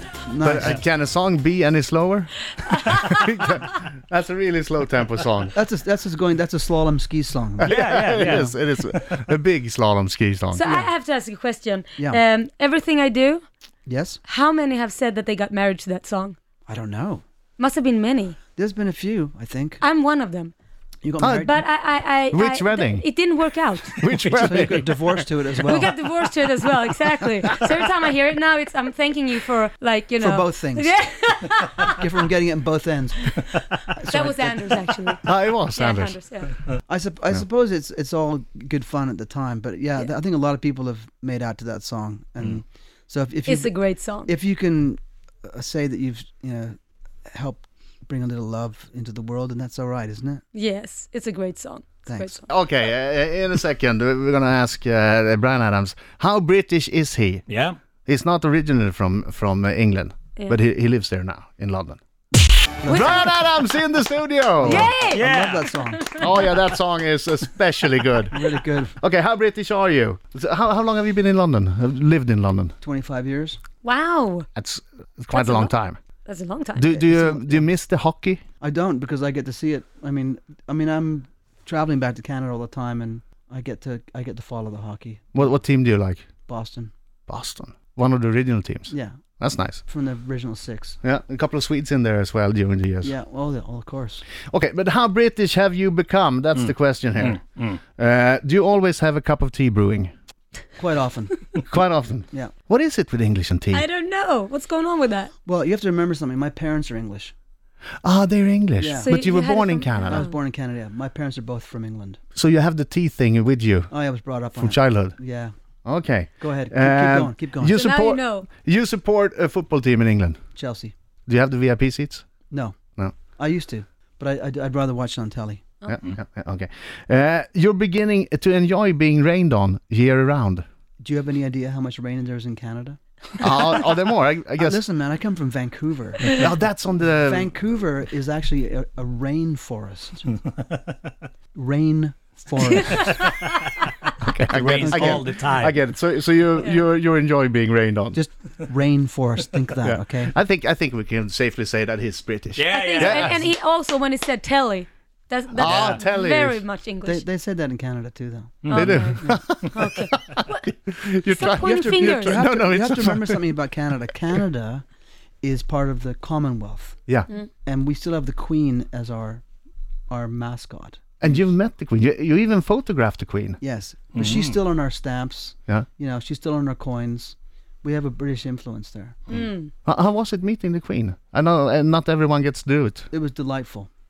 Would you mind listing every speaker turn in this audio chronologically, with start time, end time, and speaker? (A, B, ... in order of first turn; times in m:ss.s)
0:00.2-0:00.8 A
0:00.4-0:05.5 B
0:02.6-0:03.1 C
0:05.5-0:08.5 A
0:07.6-0:10.7 B
0:07.6-0:09.3 D
0:10.5-0:13.4 C
0:13.9-0:14.2 A
0:14.2-0:16.4 C
0:16.7-0:17.2 A
0:17.6-0:18.4 C
0:18.6-0:19.8 A
0:19.8-0:20.5 C
0:21.0-0:21.6 A
0:21.2-0:21.6 B
0:21.4-0:24.0 C
0:22.3-0:23.1 B
0:24.0-0:25.2 B
0:24.0-0:24.8 D
0:24.4-0:25.9 A
0:25.6-0:32.0 C
0:30.2-0:31.0 A
0:31.9-0:35.2 A
0:33.7-0:36.6 C
0:35.2-0:36.2 B
0:36.9-0:43.7 A
0:43.5-0:44.3 C
0:44.2-0:46.8 A
0:47.3-0:50.4 A
0:50.5-0:52.4 C
0:52.1-0:52.4 A
0:52.5-0:57.4 B
0:57.5-0:57.8 D
0:58.1-1:02.0 B
1:02.8-1:03.2 A
1:02.9-1:03.2 C
1:02.9-1:04.9 B
1:04.6-1:05.3 C
1:04.6-1:06.2 A
1:05.1-1:05.8 D
1:06.0-1:06.3 C
1:06.2-1:12.7 B
1:08.3-1:09.0 A
1:12.8-1:13.6 A
1:13.8-1:14.5 C
1:14.6-1:16.0 B
1:15.3-1:15.7 C
1:16.2-1:16.9 C
1:16.8-1:18.4 B
1:16.9-1:17.6 A
1:18.6-1:25.4 A
1:25.3-1:26.2 B
1:26.5-1:26.9 A
1:27.3-1:29.8 B
1:28.9-1:29.2 A
1:29.8-1:31.0 A
1:31.0-1:33.1 B
1:33.0-1:34.2 A
1:34.5-1:37.4 B
1:36.6-1:37.8 D
1:38.0-1:40.1 B
1:40.8-1:41.6 A
1:41.6-1:43.9 B
1:43.7-1:45.3 C
1:45.4-1:47.3 A
1:48.0-1:50.3 B
1:48.8-1:49.1 A
1:49.0-1:50.3 C
1:50.1-1:52.2 A
1:52.4-1:53.9 B
1:53.9-1:55.5 A
1:54.5-1:55.2 B
1:55.8-2:00.4 B
1:56.4-1:57.8 A
1:57.7-1:58.5 C
2:00.5-2:00.9 A
2:01.3-2:02.2 B
2:02.5-2:02.8 A
2:03.4-2:05.6 A
2:05.9-2:10.6 B
2:11.0-2:13.7 A
2:13.4-2:14.8 B
2:14.6-2:16.5 A
2:16.3-2:17.5 B
2:17.2-2:20.4 A
2:21.5-2:23.3 A
2:22.9-2:23.5 C
2:24.2-2:28.2 B
2:24.5-2:25.8 D
2:24.6-2:25.3 A
2:28.1-2:30.3 A
2:29.8-2:33.4 B
2:32.6-2:33.4 D
2:32.7-2:37.2 C
2:35.6-2:36.6 B
2:37.0-2:39.4 A
2:38.6-2:39.0 D
2:38.7-2:40.5 C
2:38.7-2:43.5 B
2:41.3-2:42.4 C
2:41.6-2:44.8 A
2:45.4-2:47.0 A
2:47.6-2:49.4 A
2:50.1-2:51.0 A
2:51.2-2:53.6 B
2:53.6-2:59.3 A
2:54.2-2:54.6 D
2:59.3-2:59.7 C
2:59.8-3:03.1 B
3:03.1-3:03.9 A